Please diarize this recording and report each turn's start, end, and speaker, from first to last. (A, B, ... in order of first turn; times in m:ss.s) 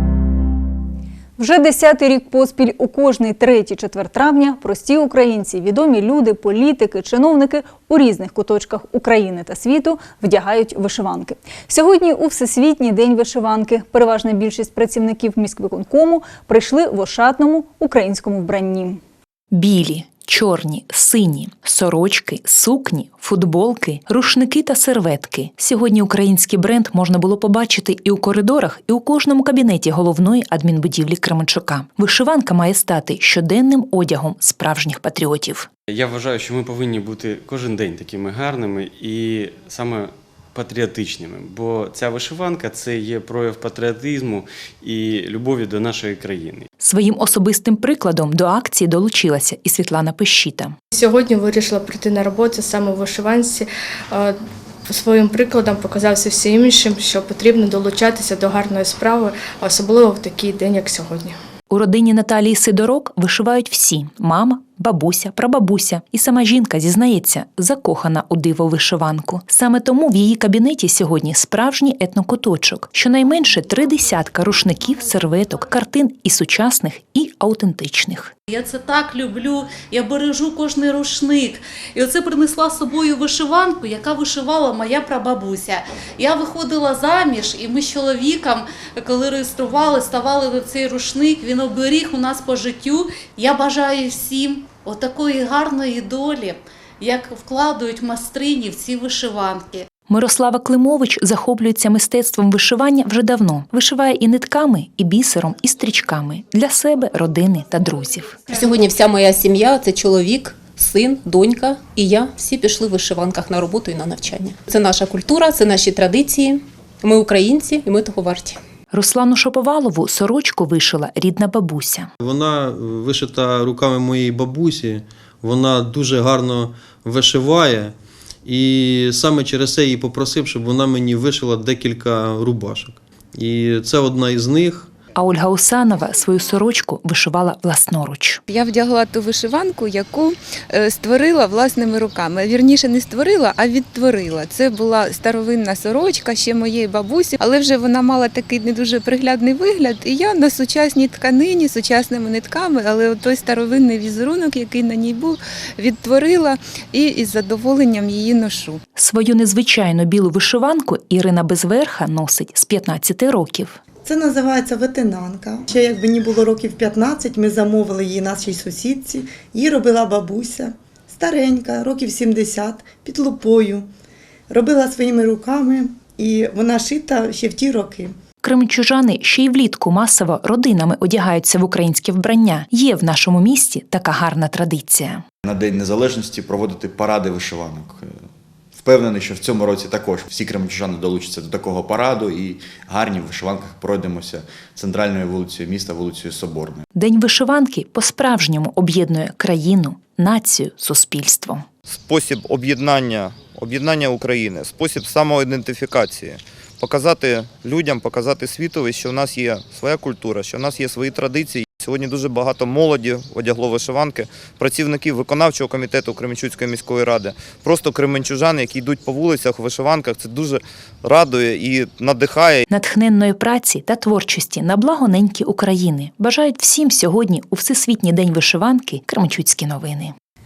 0:01.4-0:19.0 A
0:19.5-0:35.7 B
0:35.9-0:46.7 C
0:46.8-0:50.8 B
0:50.9-1:01.4 D
1:01.7-1:18.3 B
1:18.5-1:39.8 E
1:40.1-1:48.4 B
1:48.5-1:58.6 F
1:58.9-2:02.1 B
2:02.2-2:07.9 G
2:08.4-2:14.9 G
2:15.2-2:18.4 B
2:18.5-2:38.8 H
2:38.9-2:43.8 B
2:44.0-2:53.9 I
2:54.5-2:58.2 I
2:58.4-3:05.2 B
3:05.4-3:08.2 J
3:08.7-3:16.8 J
3:16.9-3:21.6 B
3:21.9-3:42.7 K
3:42.7-3:50.1 B